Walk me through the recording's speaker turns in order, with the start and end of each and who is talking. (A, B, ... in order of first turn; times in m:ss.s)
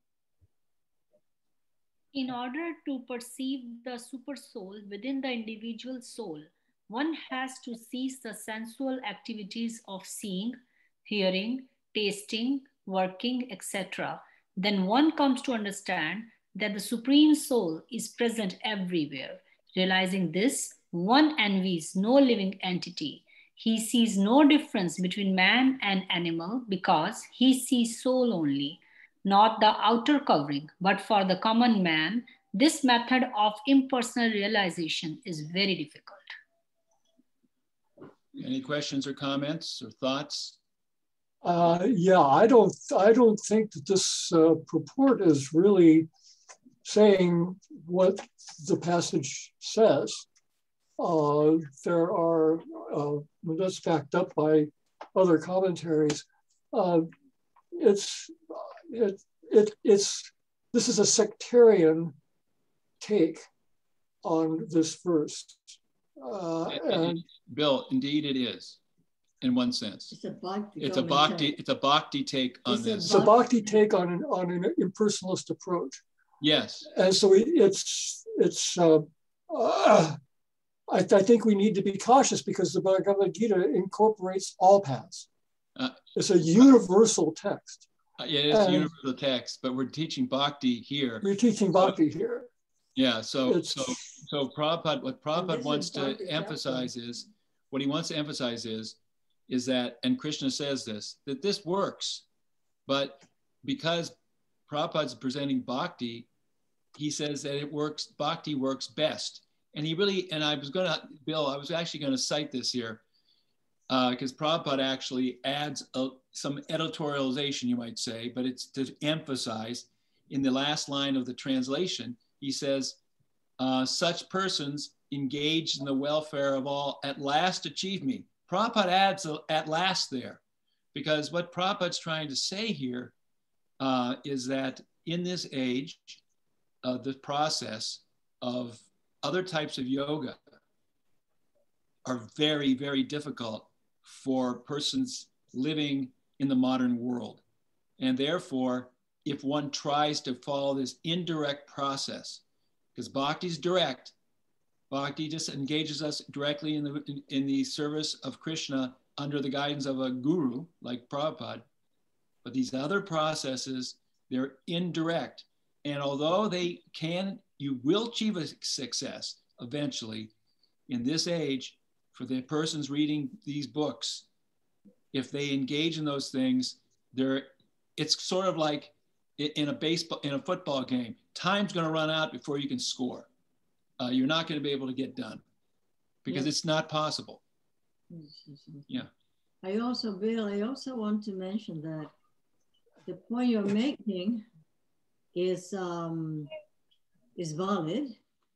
0:02.1-0:36.2 A
0:38.4-0:40.6 B
0:41.4-0:46.1 C
0:46.8-0:50.3 C
0:51.0-0:57.1 C
0:57.8-1:02.1 C
1:03.0-1:03.4 C
1:04.2-1:07.2 C
1:06.7-1:08.8 B
1:09.4-1:10.1 B
1:10.1-1:11.6 D
1:10.8-1:13.2 B
1:12.7-1:13.8 D
1:13.0-1:16.0 C
1:16.4-1:16.9 B
1:16.8-1:20.2 C
1:20.9-1:25.3 C
1:26.2-1:27.9 C
1:28.2-1:32.0 B
1:28.5-1:28.9 C
1:31.2-1:32.5 C
1:33.0-1:39.0 B
1:33.4-1:34.1 C
1:35.3-1:37.0 D
1:39.5-1:42.2 B
1:42.9-1:44.2 B
1:44.7-1:46.3 B
1:47.0-1:53.0 B
1:53.9-2:03.0 B
2:03.6-2:10.4 B
2:10.9-2:13.1 B
2:13.8-2:16.2 B
2:16.8-2:20.4 B
2:22.0-2:27.4 B
2:28.0-2:32.4 B
2:33.0-2:34.1 B
2:34.9-2:41.7 B
2:42.4-2:50.3 B
2:50.9-2:54.2 B
2:55.1-3:03.3 B
3:04.0-3:05.4 B
3:06.2-3:07.4 B
3:08.1-3:09.1 D
3:09.6-3:12.1 D
3:13.1-3:14.5 D
3:15.3-3:16.5 D
3:17.4-3:18.2 D